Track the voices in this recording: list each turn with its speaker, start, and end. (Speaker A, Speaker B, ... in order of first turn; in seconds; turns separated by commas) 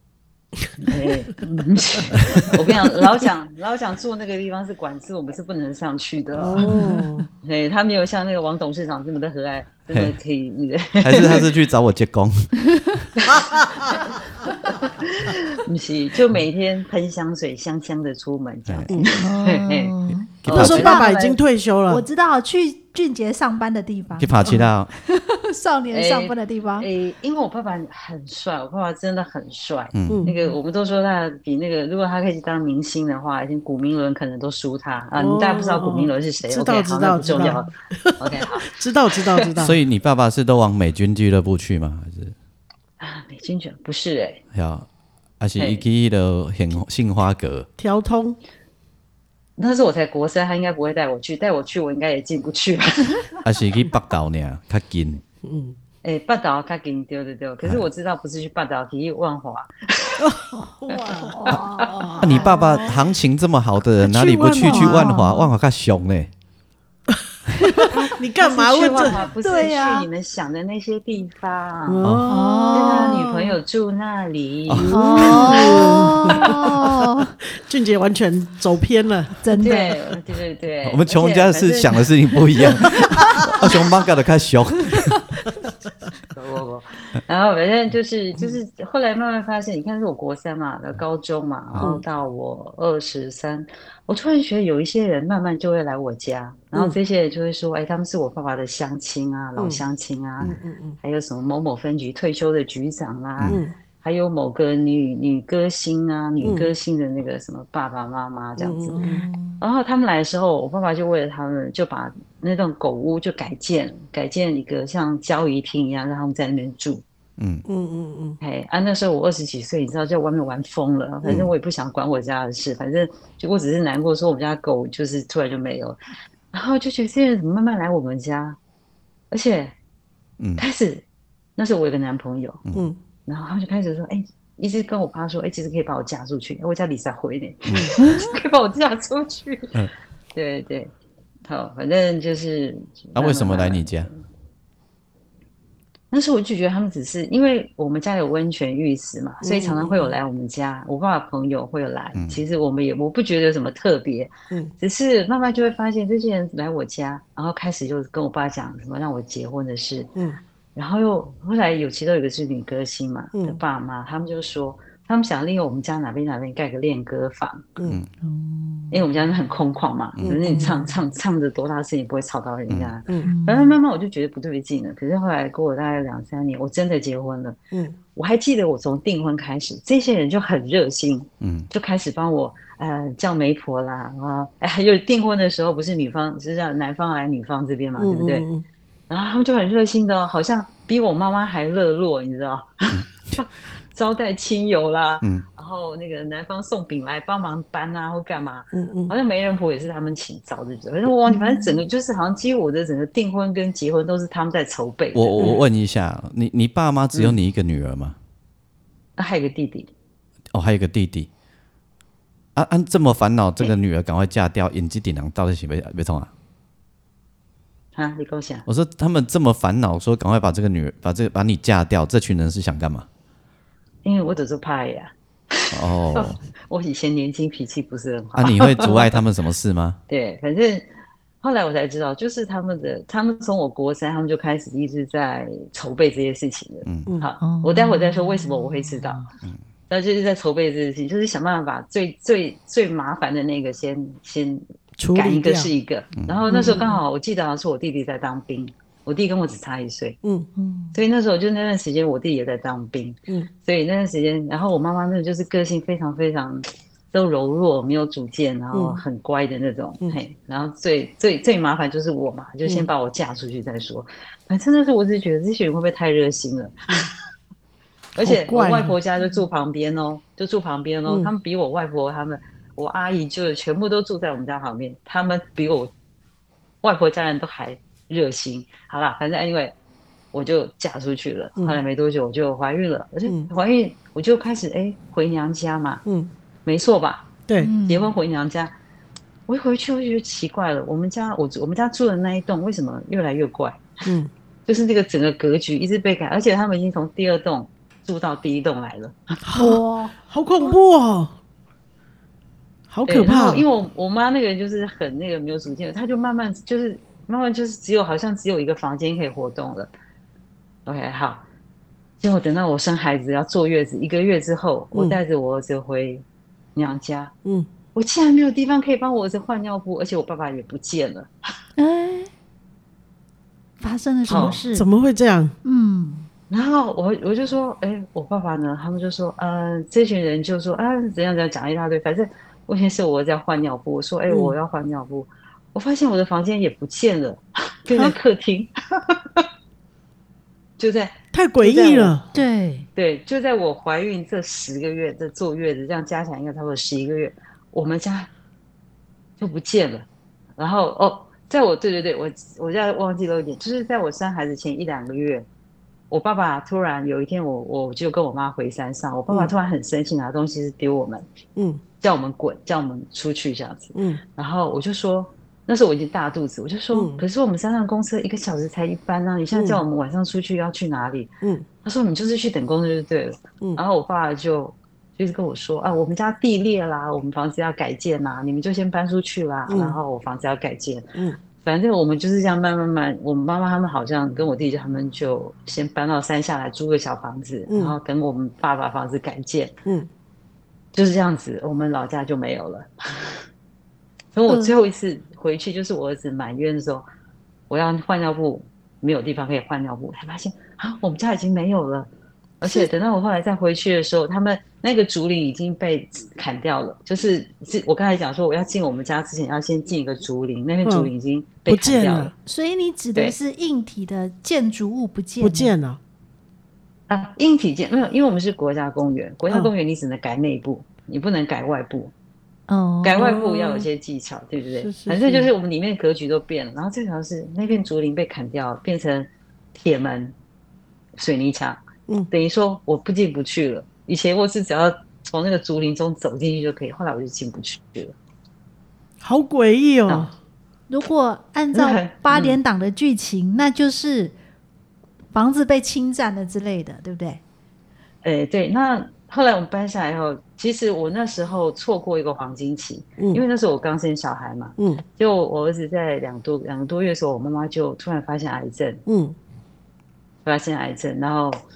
Speaker A: 0.8-6.7, Speaker B: 6.4-7.3, Speaker C: 6.7-7.0, Speaker A: 7.4-11.5, Speaker D: 9.9-10.1, Speaker D: 11.0-13.1, Speaker A: 13.2-21.4, Speaker C: 19.2-21.2, Speaker D: 20.4-20.9, Speaker B: 20.5-22.0, Speaker C: 21.9-26.9, Speaker D: 24.2-24.9, Speaker A: 25.9-39.5, Speaker D: 29.9-30.3, Speaker B: 30.1-30.4, Speaker B: 35.2-39.8, Speaker D: 39.6-42.4, Speaker A: 43.0-44.4, Speaker D: 44.5-44.9, Speaker D: 45.4-47.7, Speaker A: 45.6-45.9, Speaker B: 47.8-48.4, Speaker A: 49.6-53.4, Speaker D: 53.4-55.2, Speaker B: 55.4-55.8, Speaker A: 56.0-60.3, Speaker B: 60.2-61.6, Speaker A: 60.9-62.4, Speaker C: 61.2-63.0, Speaker D: 62.2-66.3, Speaker B: 62.2-62.5, Speaker B: 64.0-65.2, Speaker C: 64.6-65.5, Speaker C: 67.6-67.9, Speaker B: 67.8-69.2, Speaker A: 67.9-72.0, Speaker C: 69.4-70.1, Speaker B: 71.9-73.2, Speaker D: 72.0-72.3, Speaker C: 72.3-73.5, Speaker A: 72.7-76.6, Speaker D: 74.7-75.0, Speaker B: 74.8-76.9, Speaker C: 74.9-77.4, Speaker B: 77.6-79.4, Speaker C: 79.4-80.0, Speaker A: 79.6-82.1, Speaker D: 80.8-85.2, Speaker A: 86.3-109.0, Speaker B: 99.6-99.8, Speaker B: 100.4-101.0, Speaker B: 103.5-103.7, Speaker B: 106.4-106.7, Speaker B: 108.6-109.3, Speaker C: 109.0-109.6, Speaker A: 109.6-117.0, Speaker D: 117.4-117.7, Speaker B: 117.7-118.4, Speaker A: 118.4-126.0, Speaker D: 121.2-121.5, Speaker A: 126.5-128.6, Speaker A: 129.3-129.8, Speaker A: 130.6-131.1, Speaker A: 131.6-132.6, Speaker D: 132.7-132.9, Speaker A: 133.3-139.8, Speaker A: 140.3-140.9, Speaker A: 141.4-144.2, Speaker D: 143.2-144.1, Speaker A: 146.1-160.1, Speaker B: 149.4-150.1, Speaker D: 152.2-152.4, Speaker A: 160.8-167.8, Speaker B: 163.3-163.6, Speaker C: 168.2-169.0, Speaker A: 168.9-177.6, Speaker B: 170.2-170.8, Speaker C: 170.5-170.8, Speaker C: 173.3-173.8, Speaker B: 177.7-178.0, Speaker A: 178.2-188.5, Speaker D: 181.4-181.7, Speaker B: 188.0-188.7, Speaker A: 189.1-205.6, Speaker B: 198.7-199.1, Speaker C: 201.3-201.8, Speaker D: 205.2-208.2, Speaker A: 209.2-209.9, Speaker D: 210.5-211.3, Speaker D: 212.6-216.3, Speaker A: 217.9-218.7, Speaker D: 218.7-223.1, Speaker A: 224.0-229.2, Speaker D: 225.7-226.4, Speaker D: 228.4-230.0, Speaker A: 230.1-230.9, Speaker A: 231.4-239.3, Speaker D: 236.8-237.1, Speaker C: 237.4-239.0, Speaker A: 239.9-250.2, Speaker B: 245.0-245.7, Speaker C: 246.5-247.0, Speaker B: 250.2-250.5, Speaker C: 250.6-251.0, Speaker A: 250.9-266.9, Speaker B: 258.7-259.0, Speaker A: 268.1-275.9, Speaker B: 268.2-269.0, Speaker A: 276.8-279.7, Speaker A: 280.3-286.0, Speaker B: 286.1-286.3, Speaker A: 286.6-287.3, Speaker B: 287.5-287.7, Speaker C: 287.6-288.1, Speaker A: 287.9-288.7, Speaker A: 289.5-293.9, Speaker B: 294.1-294.3, Speaker A: 294.7-299.4, Speaker B: 299.4-301.3, Speaker C: 299.6-300.8, Speaker B: 302.9-303.6, Speaker A: 303.1-309.9, Speaker A: 310.9-311.4, Speaker A: 312.2-317.3, Speaker B: 314.9-315.2, Speaker A: 317.9-321.3, Speaker C: 321.8-322.3, Speaker C: 323.8-324.9, Speaker A: 324.2-324.6, Speaker B: 324.3-325.5, Speaker C: 325.6-326.3, Speaker A: 326.5-339.4, Speaker B: 334.3-334.6, Speaker B: 337.9-338.2, Speaker A: 340.8-342.2, Speaker B: 341.3-342.3, Speaker C: 342.3-342.9, Speaker A: 343.0-348.3, Speaker A: 349.4-350.1, Speaker A: 350.6-355.5, Speaker A: 356.1-361.3, Speaker B: 361.6-361.8, Speaker A: 362.0-371.3, Speaker B: 363.9-364.2, Speaker B: 366.9-367.2, Speaker B: 369.5-369.8, Speaker A: 371.8-389.8, Speaker B: 379.7-380.0, Speaker B: 387.7-388.0, Speaker A: 390.9-393.4, Speaker A: 394.3-397.1, Speaker C: 394.5-394.7, Speaker A: 397.7-402.1, Speaker A: 402.6-412.3, Speaker C: 402.6-402.9, Speaker B: 410.9-411.1, Speaker B: 411.7-412.3, Speaker C: 412.4-415.7, Speaker B: 415.4-416.0, Speaker A: 417.1-422.1, Speaker C: 422.7-423.9, Speaker A: 423.0-430.4, Speaker B: 424.8-425.5, Speaker A: 431.2-438.1, Speaker B: 439.2-440.3, Speaker C: 440.9-444.3, Speaker A: 441.7-442.6, Speaker C: 445.3-447.4, Speaker A: 448.2-459.0, Speaker B: 453.2-453.4, Speaker B: 454.8-455.0, Speaker B: 459.1-459.4, Speaker A: 460.4-461.6